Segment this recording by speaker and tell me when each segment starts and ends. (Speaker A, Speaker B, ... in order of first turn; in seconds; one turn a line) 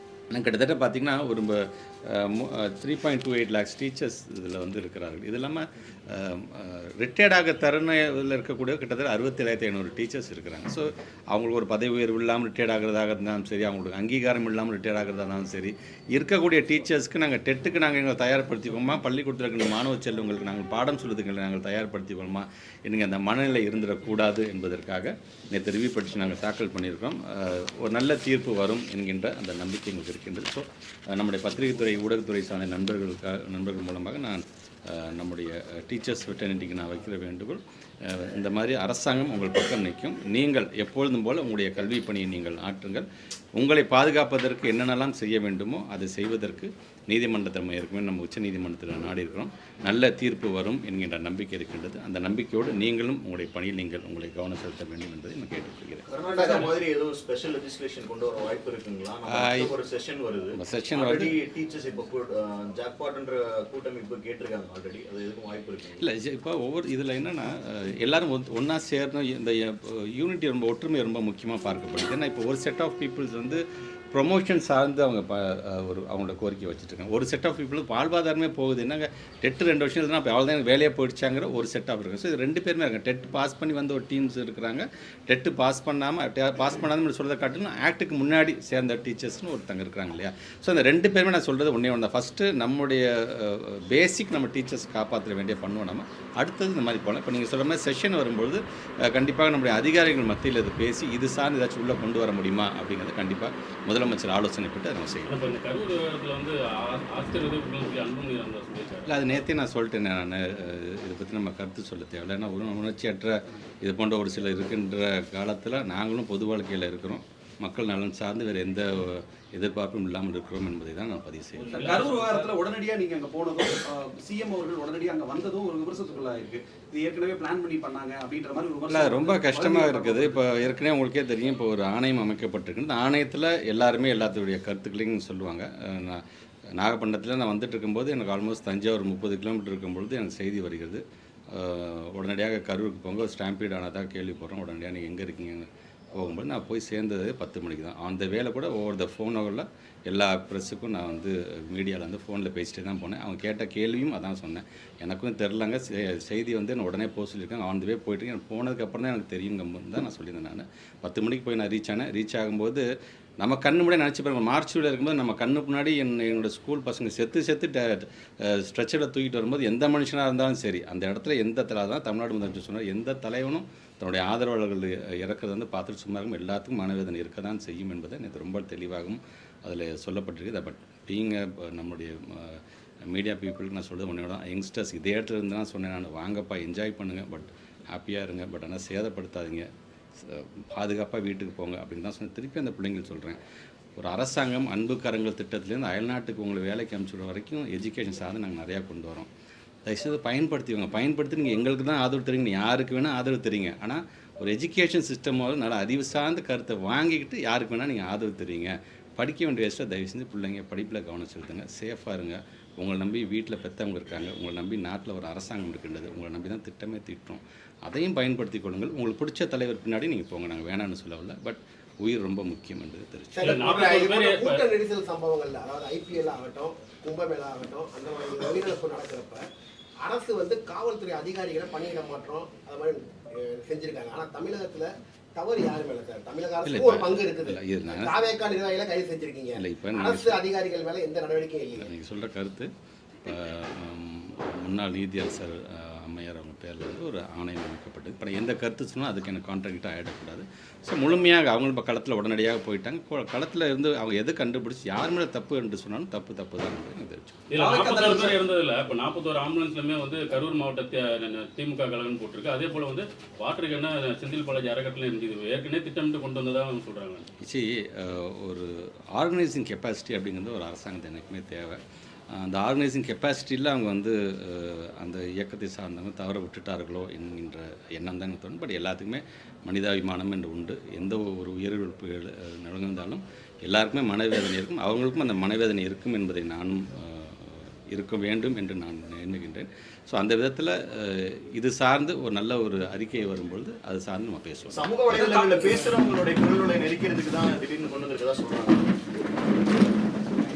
Speaker A: 0.3-56.0
Speaker B: 56.1-66.0
Speaker A: 59.3-59.7
Speaker A: 60.5-61.3
Speaker A: 66.0-105.4
Speaker C: 105.3-109.1
Speaker A: 109.0-122.0
Speaker D: 121.7-130.4
Speaker C: 121.7-122.5
Speaker A: 128.9-136.2
Speaker A: 136.8-162.8
Speaker A: 163.4-193.4
Speaker A: 194.0-199.3
Speaker A: 199.8-223.6
Speaker E: 223.3-229.4
Speaker C: 223.4-224.6
Speaker E: 230.0-241.9
Speaker A: 236.6-238.3
Speaker A: 239.5-240.4
Speaker A: 241.8-242.7
Speaker A: 243.2-257.4
Speaker C: 257.5-267.3
Speaker D: 257.6-258.4
Speaker A: 267.4-271.8
Speaker A: 272.3-294.9
Speaker B: 294.7-298.9